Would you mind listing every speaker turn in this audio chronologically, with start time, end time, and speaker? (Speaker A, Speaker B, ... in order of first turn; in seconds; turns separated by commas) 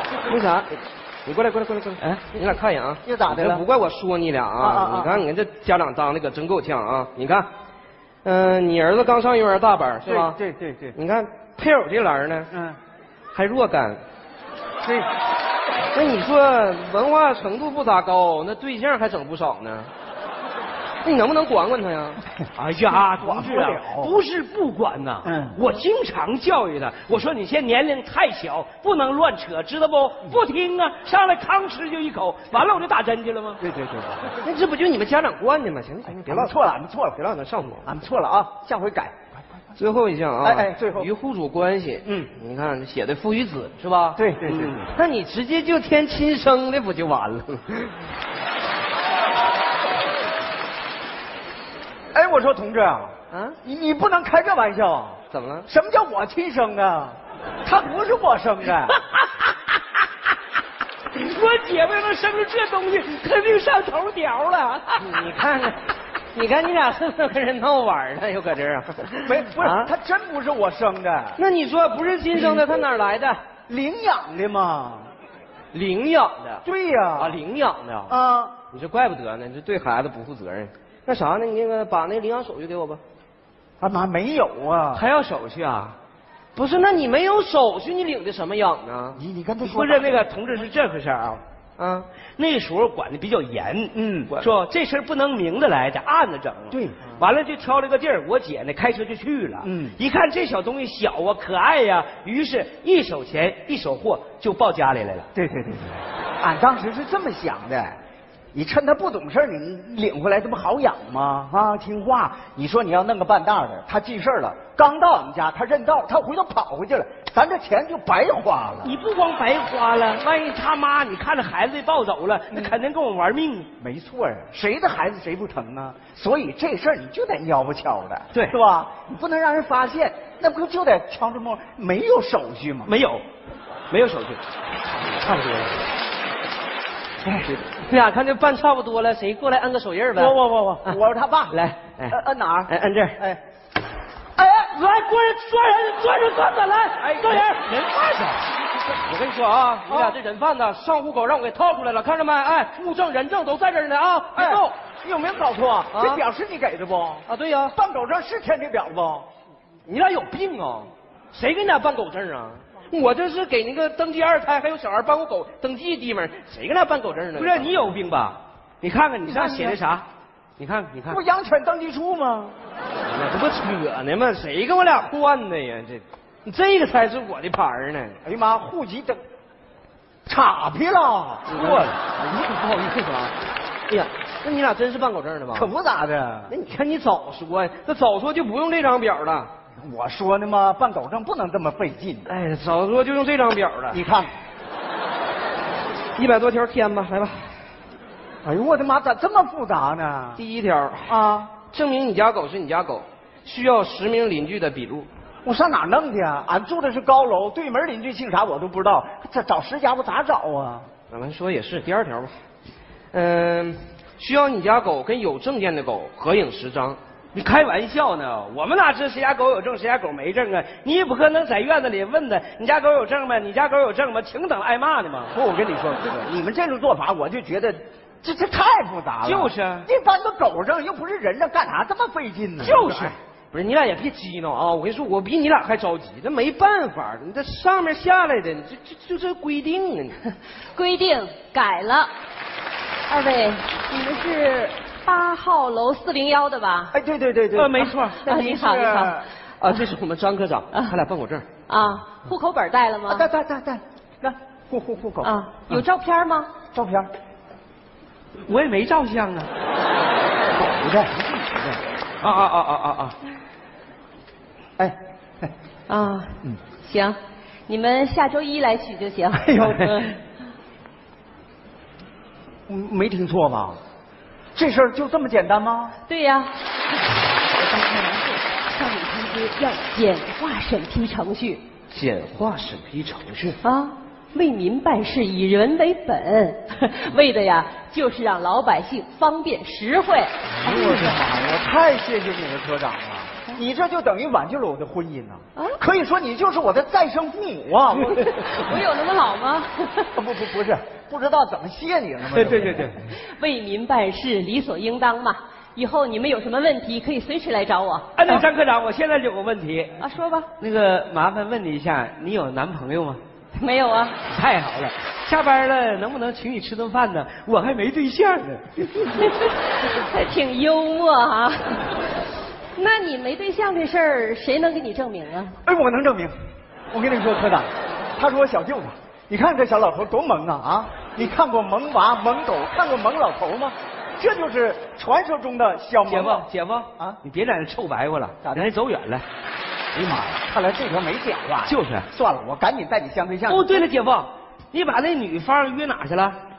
Speaker A: 0.2-7.5, Speaker B: 3.0-3.6, Speaker B: 4.6-5.3, Speaker A: 8.2-10.4, Speaker B: 10.1-11.0, Speaker A: 10.9-12.5, Speaker B: 12.5-12.8, Speaker A: 13.3-14.0, Speaker B: 14.8-15.1, Speaker A: 15.9-19.9, Speaker A: 21.0-22.2, Speaker C: 22.6-33.6, Speaker B: 23.2-24.2, Speaker B: 25.2-25.6, Speaker B: 33.6-34.5, Speaker A: 34.4-36.5, Speaker B: 36.2-37.2, Speaker A: 37.1-38.0, Speaker B: 37.8-39.2, Speaker A: 39.8-44.2, Speaker B: 40.4-41.1, Speaker B: 42.0-42.3, Speaker B: 44.2-44.8, Speaker C: 44.4-44.9, Speaker A: 44.9-48.0, Speaker B: 52.1-59.0, Speaker A: 53.3-53.6, Speaker A: 55.3-55.7, Speaker C: 61.1-65.3, Speaker A: 65.0-69.9, Speaker B: 69.2-71.4, Speaker A: 71.4-73.4, Speaker B: 72.3-72.8, Speaker B: 73.7-75.1, Speaker A: 75.7-76.6, Speaker B: 76.7-77.4, Speaker A: 77.2-78.2, Speaker B: 78.1-78.5, Speaker A: 78.7-83.0, Speaker B: 83.8-85.1, Speaker C: 84.9-86.0, Speaker A: 86.5-89.2, Speaker B: 89.2-90.2, Speaker C: 89.6-91.4, Speaker A: 91.8-92.1, Speaker C: 92.4-105.3, Speaker B: 94.0-94.3, Speaker B: 96.7-97.0, Speaker B: 99.6-100.0, Speaker B: 105.3-108.0, Speaker B: 108.5-118.9, Speaker C: 118.8-123.7, Speaker B: 123.8-132.9, Speaker C: 132.9-133.2, Speaker C: 133.9-134.4, Speaker A: 135.3-135.6, Speaker A: 137.4-141.0, Speaker B: 140.1-143.4, Speaker A: 141.5-143.2, Speaker B: 144.4-144.7, Speaker A: 144.7-147.9, Speaker C: 146.8-148.4, Speaker B: 147.0-147.4, Speaker A: 148.9-154.8, Speaker B: 149.9-150.2, Speaker B: 154.3-159.3, Speaker A: 155.9-156.2, Speaker A: 157.3-157.8, Speaker A: 159.9-167.8, Speaker C: 167.3-170.1, Speaker B: 169.3-169.8, Speaker C: 170.6-171.2, Speaker B: 171.1-172.6, Speaker A: 173.1-178.2, Speaker B: 178.2-179.2, Speaker B: 180.3-183.3, Speaker A: 181.5-181.8, Speaker A: 183.9-185.7, Speaker B: 185.5-186.5, Speaker A: 186.5-189.5, Speaker B: 189.8-192.3, Speaker A: 192.3-194.0, Speaker B: 193.9-194.3, Speaker A: 196.2-197.6, Speaker B: 198.4-200.4, Speaker A: 200.4-205.1, Speaker B: 201.1-201.5, Speaker B: 205.4-210.9, Speaker A: 211.1-212.3, Speaker A: 213.1-217.0, Speaker C: 217.3-225.3, Speaker B: 225.3-232.8, Speaker C: 229.2-229.9, Speaker C: 232.6-233.2, Speaker A: 232.6-240.2, Speaker D: 240.7-242.1, Speaker D: 243.1-246.9, Speaker B: 246.9-249.2, Speaker C: 247.5-248.2, Speaker D: 248.3-249.9, Speaker A: 249.6-251.5, Speaker D: 250.7-251.0, Speaker D: 251.7-253.3, Speaker B: 253.1-255.8, Speaker D: 255.2-256.5, Speaker B: 256.7-257.1, Speaker C: 258.5-259.5, Speaker B: 260.6-261.8, Speaker C: 262.2-263.2, Speaker B: 264.8-265.5, Speaker D: 265.9-270.2, Speaker B: 269.4-270.1, Speaker B: 272.7-273.8, Speaker B: 274.6-275.9, Speaker D: 276.1-276.6, Speaker D: 277.8-281.7, Speaker A: 281.9-283.6, Speaker D: 283.6-291.1, Speaker B: 290.6-298.3, Speaker D: 298.4-300.1, Speaker B: 300.1-303.0, Speaker C: 302.3-303.0, Speaker D: 303.1-308.4, Speaker C: 308.1-310.0, Speaker D: 310.0-310.5, Speaker C: 310.6-313.2, Speaker D: 313.6-314.2, Speaker C: 314.3-319.4, Speaker D: 319.2-322.0, Speaker D: 322.8-325.6, Speaker B: 325.6-326.3, Speaker B: 326.9-336.5, Speaker C: 336.1-339.2, Speaker B: 339.9-343.7, Speaker C: 341.7-342.1, Speaker C: 343.5-346.4